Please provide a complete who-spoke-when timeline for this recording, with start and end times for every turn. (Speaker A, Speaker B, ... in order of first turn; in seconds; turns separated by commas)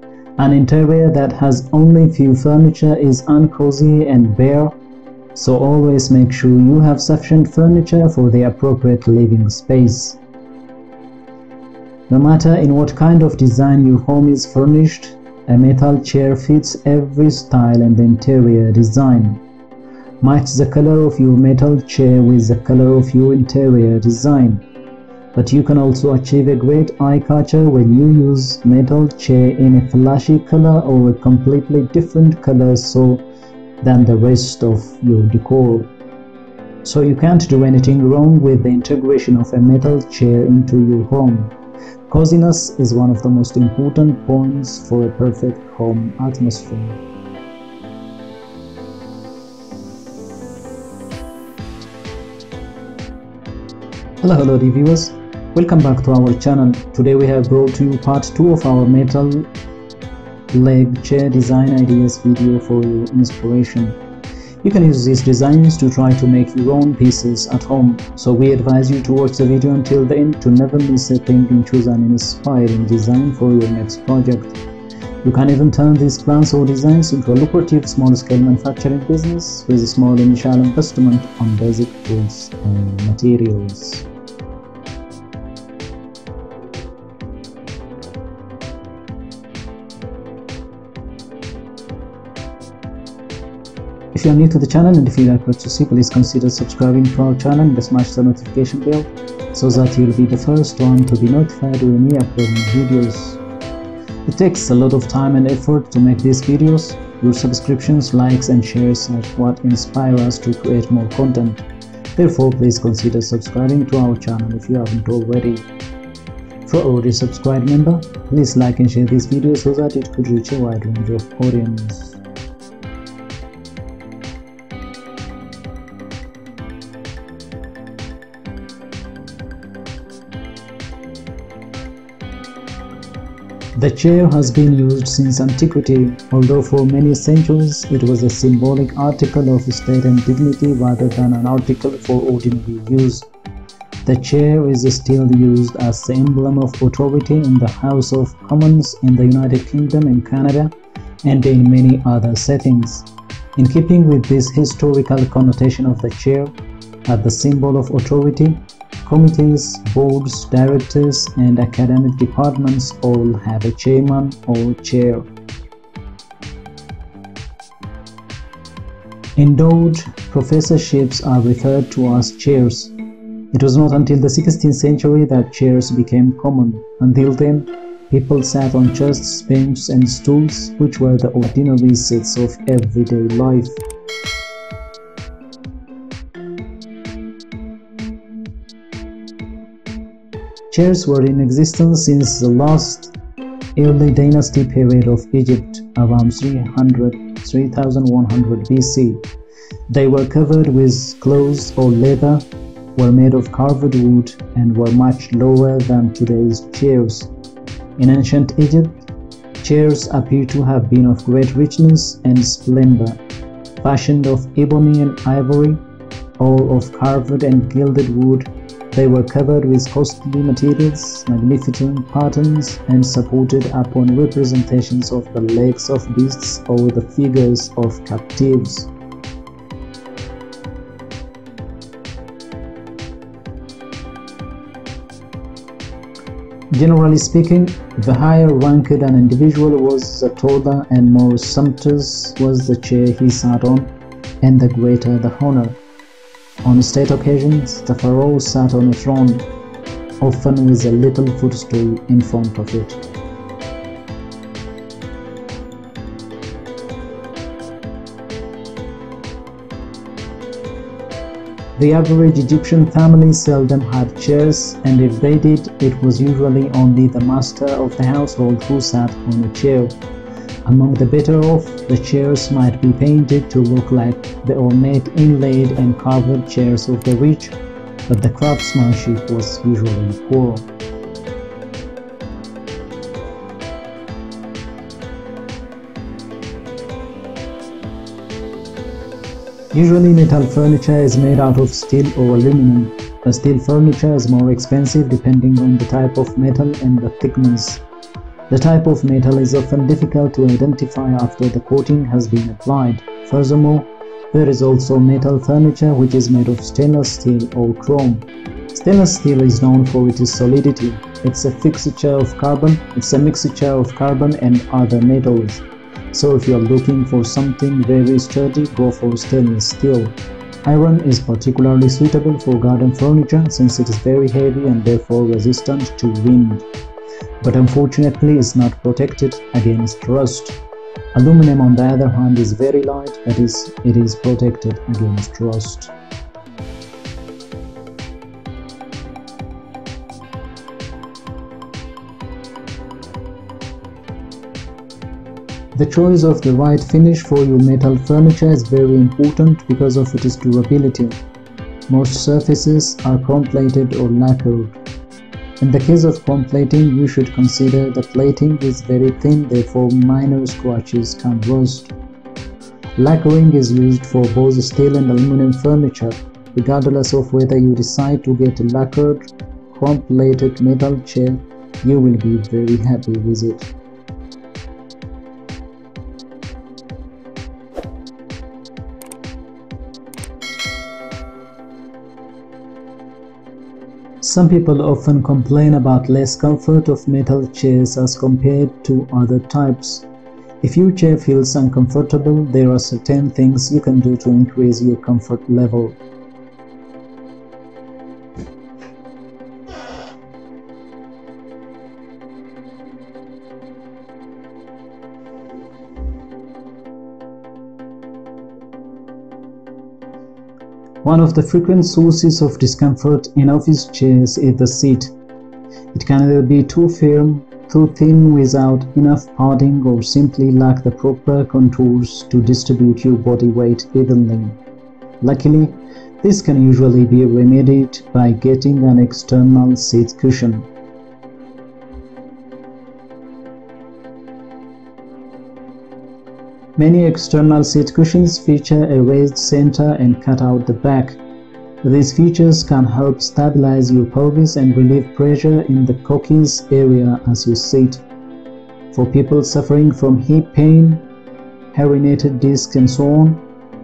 Speaker A: 0.4-4.7, Speaker A: 5.3-10.2, Speaker A: 12.1-19.4, Speaker A: 20.2-24.6, Speaker A: 25.3-33.2, Speaker A: 33.8-35.9, Speaker A: 36.8-41.5, Speaker A: 42.1-47.0, Speaker A: 54.2-59.5, Speaker A: 60.5-64.0, Speaker A: 64.6-74.6, Speaker A: 75.2-84.1, Speaker A: 94.1-103.4, Speaker A: 104.3-111.7, Speaker A: 112.2-115.7, Speaker A: 116.7-122.2, Speaker A: 133.8-143.3, Speaker A: 144.1-156.5, Speaker A: 157.1-165.3, Speaker A: 169.4-172.9, Speaker A: 173.5-183.8, Speaker A: 190.7-193.1, Speaker A: 193.8-199.2, Speaker A: 199.9-207.3, Speaker A: 208.0-208.9, Speaker A: 209.6-213.2, Speaker A: 213.8-215.8, Speaker A: 216.4-228.9, Speaker A: 236.7-243.9, Speaker A: 244.4-245.8, Speaker A: 246.6-249.5, Speaker A: 250.2-253.0, Speaker A: 261.8-270.0, Speaker A: 270.7-277.6, Speaker A: 278.1-280.7, Speaker A: 289.7-297.8, Speaker A: 298.5-326.7, Speaker A: 327.4-330.6, Speaker A: 331.1-335.9, Speaker A: 345.8-351.2, Speaker A: 351.9-354.8, Speaker A: 355.6-361.9, Speaker A: 363.0-373.7, Speaker A: 384.2-390.1, Speaker A: 390.6-396.0, Speaker A: 411.0-415.1, Speaker A: 415.9-424.6, Speaker A: 425.2-430.7, Speaker A: 436.8-441.2, Speaker A: 441.8-448.0, Speaker A: 448.9-451.0, Speaker A: 451.7-453.4